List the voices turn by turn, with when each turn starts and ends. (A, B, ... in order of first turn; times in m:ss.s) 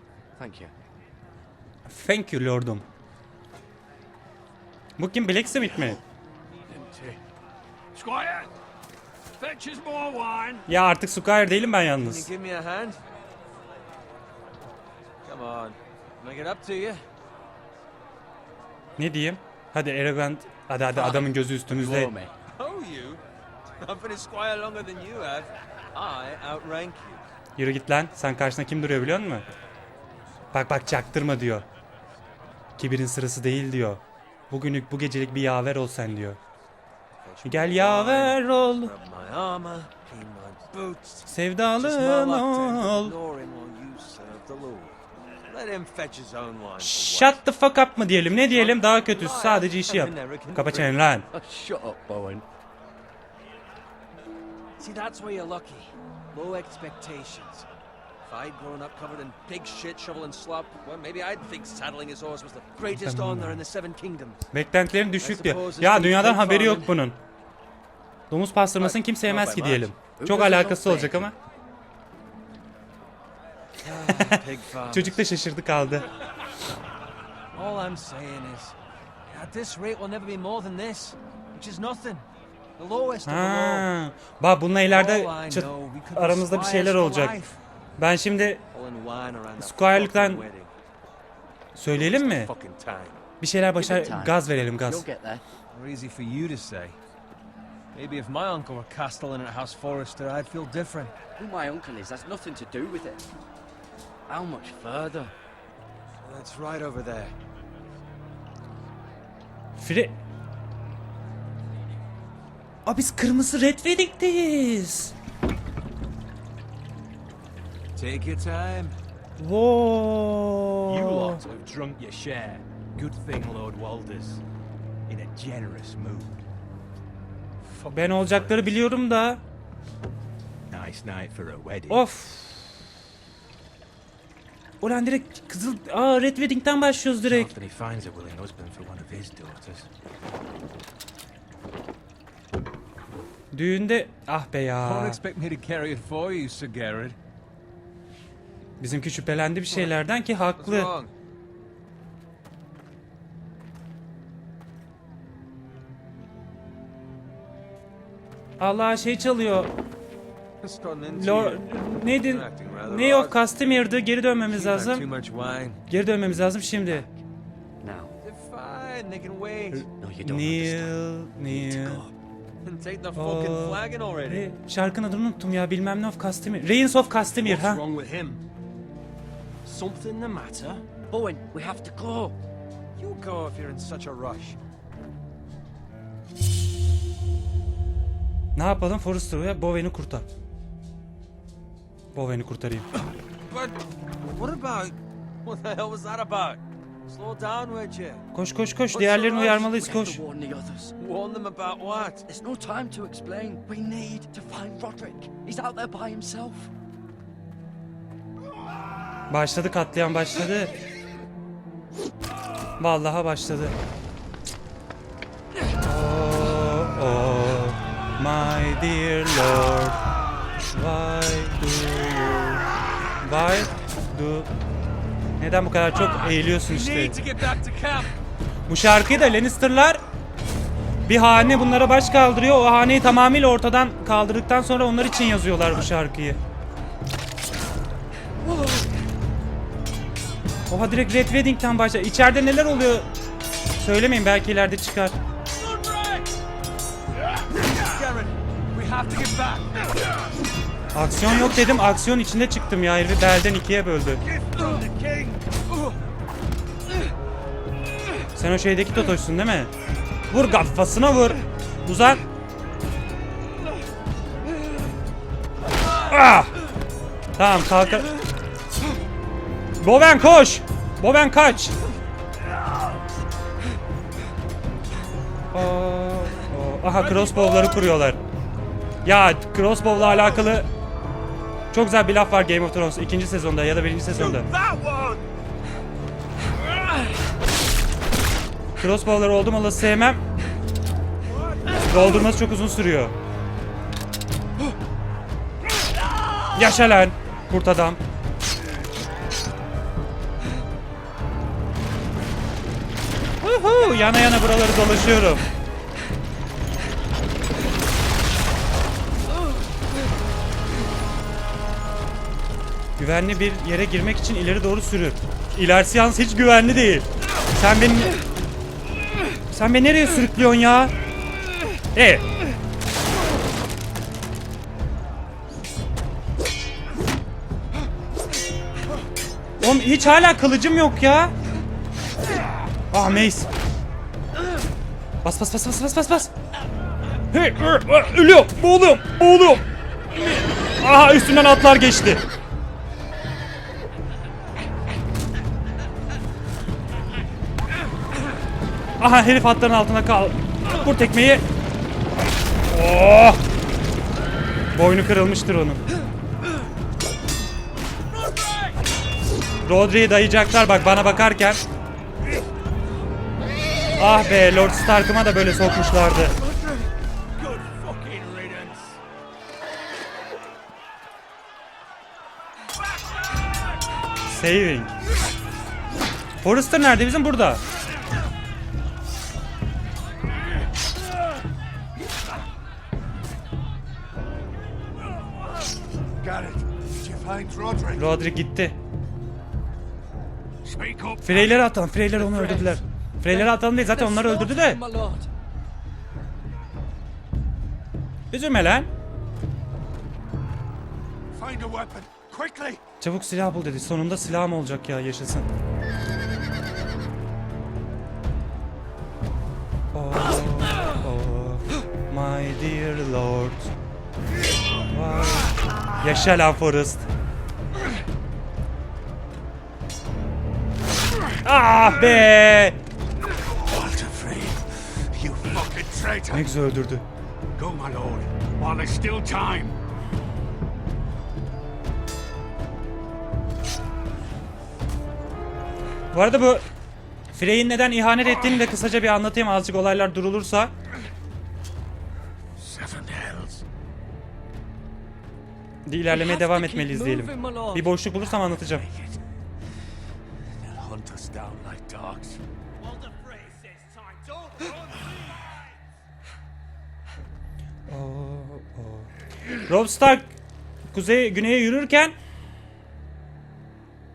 0:00.4-0:00.7 A
0:01.9-0:02.8 B
0:05.0-0:06.0 B
0:05.6-0:06.0 C
0:06.7-0:07.2 C
0:07.9-0:08.5 D
0:09.4-0:10.6 D
0:10.7-0:12.3 B
0:12.0-0:13.0 D
0:15.2-0:17.0 D
0:19.0-0:22.1 B
0:20.9-0:22.3 A
0:22.6-0:23.2 D
0:23.8-0:27.2 D
0:27.6-0:29.4 B
0:30.5-0:31.6 B
0:32.8-0:36.4 B
0:37.2-0:44.9 D
0:37.4-0:38.9 B
0:41.2-0:43.1 B
0:45.5-0:47.4 D
0:46.8-0:51.2 B
0:48.3-0:51.0 D
0:51.3-0:52.4 A
0:54.8-0:57.7 D
0:58.2-1:04.5 D
1:02.9-1:03.6 B
1:04.5-1:07.2 B
1:05.2-1:07.0 D
1:08.3-1:11.3 B
1:08.8-1:09.9 D
1:10.2-1:11.3 A
1:13.8-1:15.2 D
1:14.0-1:16.0 B
1:17.5-1:18.8 D
1:19.3-1:22.2 D
1:22.8-1:23.9 D
1:23.2-1:27.4 B
1:24.9-1:27.6 D
1:28.0-1:28.6 B
1:28.7-1:30.7 D
1:29.6-1:30.4 B
1:31.7-1:32.5 B
1:31.9-1:33.2 D
1:33.4-1:35.0 B
1:33.8-1:35.4 A
1:35.7-1:37.0 D
1:37.9-1:41.1 D
1:41.4-1:43.2 A
1:44.3-1:45.3 A
1:46.2-1:47.3 D
1:49.8-1:50.1 B
1:52.8-1:55.1 B
1:58.0-1:59.0 D
1:59.4-2:01.4 B
2:00.8-2:04.4 E
2:05.1-2:06.4 E
2:07.7-2:08.7 E
2:07.9-2:09.4 B
2:10.7-2:12.4 E
2:11.9-2:12.4 B
2:14.8-2:17.5 B
2:17.2-2:19.9 E
2:23.5-2:25.2 B
2:24.8-2:27.2 D
2:28.8-2:30.9 B
2:30.6-2:31.1 D
2:38.6-2:39.7 B
2:40.6-2:43.4 D
2:41.1-2:45.0 B
2:44.5-2:45.8 D
2:45.9-2:47.0 B
2:47.8-2:48.1 A
2:48.2-2:49.9 D
2:49.7-2:52.0 B
2:50.0-2:51.0 A
2:51.5-2:52.1 A
2:52.6-2:54.5 D
2:53.1-2:57.8 B
2:57.4-2:58.4 E
2:59.6-3:00.8 E
3:01.1-3:02.4 A
3:03.0-3:04.6 D
3:08.5-3:10.3 B
3:12.1-3:12.9 B
3:13.4-3:18.2 D
3:18.3-3:20.2 B
3:18.9-3:19.5 D
3:19.3-3:20.9 A
3:21.0-3:22.2 D
3:22.3-3:26.7 A
3:29.3-3:30.7 B
3:32.8-3:33.7 B
3:35.8-3:40.0 B
3:40.7-3:42.6 B
3:43.2-3:44.5 B
3:45.4-3:47.2 B
3:45.9-3:48.1 D
3:48.7-3:50.0 B
3:51.0-3:56.4 B
4:00.7-4:03.1 B
4:03.8-4:05.2 B
4:05.6-4:06.3 D
4:07.7-4:09.9 D
4:10.9-4:14.2 B
4:14.3-4:15.4 D
4:18.3-4:19.7 B
4:20.3-4:22.2 B
4:26.1-4:26.5 B
4:27.4-4:28.1 B
4:29.8-4:31.8 B
4:35.5-4:38.2 B
4:37.0-4:37.8 D
4:39.0-4:40.7 B
4:41.7-4:44.5 B
4:48.8-4:50.2 B
4:51.8-4:53.1 B
4:56.5-4:58.0 B
5:03.4-5:05.4 B
5:13.0-5:18.1 B
5:19.5-5:20.9 B
5:21.9-5:22.2 B
5:29.6-5:31.3 B
5:32.9-5:33.5 B
5:35.2-5:36.3 B
5:37.3-5:39.6 B
5:40.8-5:42.2 B
5:49.0-5:51.4 B
5:52.7-5:53.4 B
5:54.7-5:55.8 B
5:59.6-6:01.6 B
6:04.0-6:06.3 B
6:07.6-6:08.4 E
6:08.0-6:08.7 D
6:14.3-6:14.9 B
6:16.4-6:17.6 B
6:26.2-6:28.2 C
6:28.0-6:28.8 B
6:30.6-6:31.7 C
6:31.2-6:34.8 B
6:32.2-6:35.3 A
6:38.3-6:38.9 B
6:41.3-6:42.8 C
6:43.0-6:45.5 B
6:49.9-6:53.7 B
6:54.9-6:57.1 B
7:01.4-7:02.8 B
7:03.4-7:06.5 C
7:06.3-7:07.0 B
7:07.6-7:09.7 C
7:16.1-7:16.6 B
7:17.3-7:20.7 B
7:22.6-7:23.6 C
7:25.8-7:28.9 B
7:26.1-7:28.0 A
7:28.6-7:29.2 C
7:30.6-7:32.4 C
7:32.8-7:34.9 E
7:37.9-7:40.3 B
7:40.9-7:42.1 B